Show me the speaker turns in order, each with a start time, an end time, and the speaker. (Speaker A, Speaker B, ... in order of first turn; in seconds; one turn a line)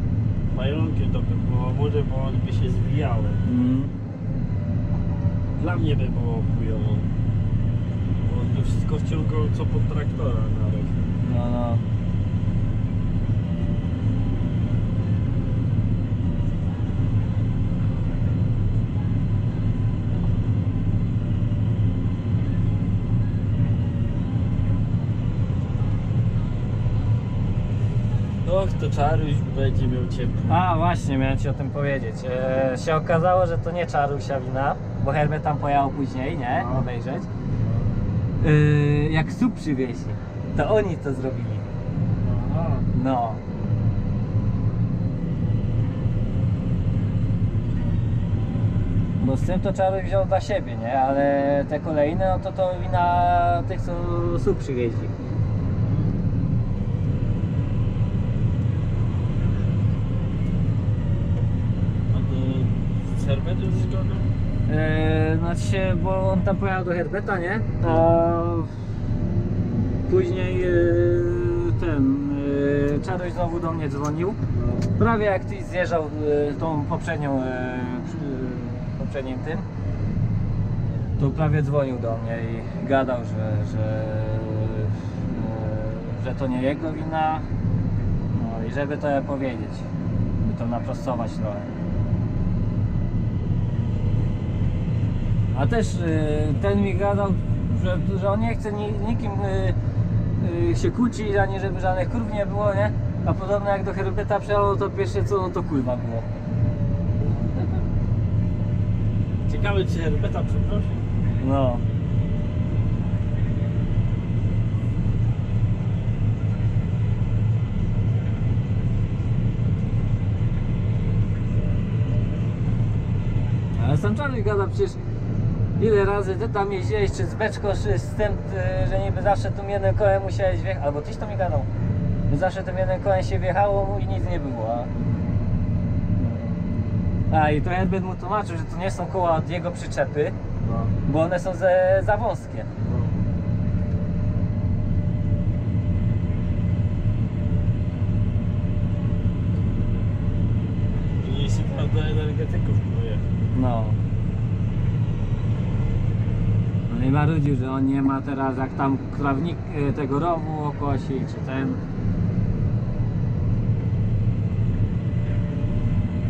Speaker A: 0.5-3.4
Speaker B: 3.4-3.9
Speaker A: 5.6-7.1
Speaker A: 8.2-11.0
Speaker B: 11.2-11.8
Speaker A: 28.4-30.6
Speaker B: 30.5-37.3
Speaker A: 36.5-36.9
Speaker B: 38.4-41.7
Speaker A: 42.2-42.9
Speaker B: 42.9-43.4
Speaker B: 49.2-55.1
Speaker A: 62.1-64.3
Speaker B: 64.7-68.8
Speaker B: 70.1-74.4
Speaker A: 74.5-74.9
Speaker B: 75.0-79.7
Speaker B: 81.2-87.5
Speaker B: 88.3-89.9
Speaker B: 90.4-91.7
Speaker B: 95.5-99.8
Speaker B: 100.4-106.3
Speaker B: 107.2-107.7
Speaker A: 109.4-111.0
Speaker B: 111.4-111.8
Speaker B: 123.7-125.0
Speaker B: 125.8-131.7
Speaker B: 132.3-134.9
Speaker B: 136.2-136.6
Speaker B: 137.3-140.4
Speaker A: 140.6-140.9
Speaker B: 141.1-142.7
Speaker A: 142.8-143.2
Speaker A: 151.2-153.2
Speaker B: 153.5-154.0
Speaker B: 156.9-161.8